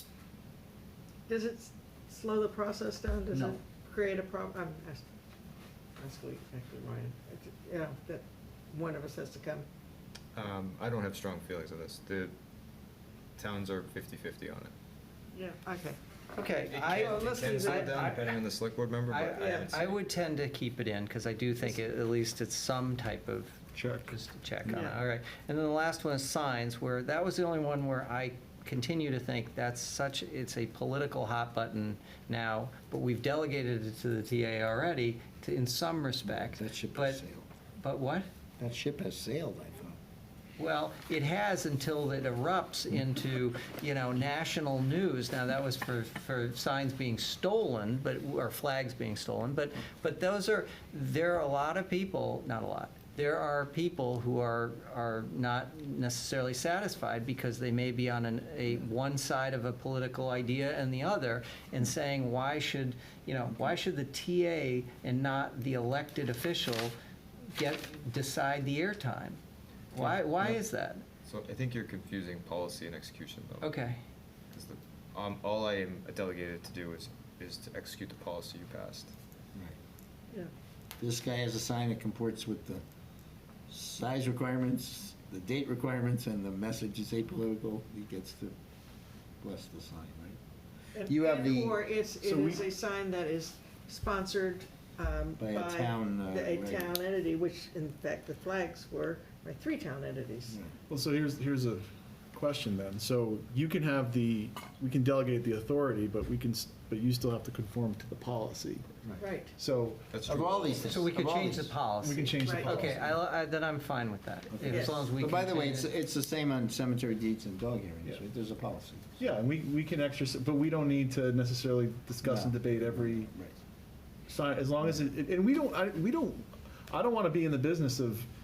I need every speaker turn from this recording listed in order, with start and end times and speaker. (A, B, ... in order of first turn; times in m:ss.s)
0:01.3-0:05.1 A
0:06.0-0:09.7 A
0:10.4-0:12.3 B
0:13.4-0:14.7 B
0:15.3-0:18.4 A
0:16.4-0:18.0 C
0:16.6-0:20.0 B
0:19.1-0:37.2 C
0:19.3-0:19.8 A
0:23.8-0:24.1 D
0:36.2-0:37.5 E
0:37.8-0:38.3 C
0:38.6-0:40.0 E
0:40.6-1:06.9 C
1:07.6-1:09.4 C
1:09.9-1:11.1 C
1:11.2-1:13.8 B
1:13.6-1:14.0 C
1:14.5-1:19.1 B
1:21.0-1:22.8 E
1:23.7-1:28.6 E
1:29.4-1:30.4 E
1:31.0-1:40.6 A
1:31.0-1:31.8 E
1:32.2-1:32.6 D
1:35.4-1:36.9 E
1:40.9-1:49.0 D
1:49.2-1:49.5 A
1:49.6-1:50.5 D
1:50.1-1:51.0 B
1:50.3-1:51.7 E
1:50.8-1:55.9 C
1:52.0-1:53.2 D
1:52.4-1:52.8 A
1:54.5-1:59.2 E
1:54.6-1:55.0 A
1:59.2-2:03.3 D
2:02.2-2:03.5 E
2:04.3-2:08.3 D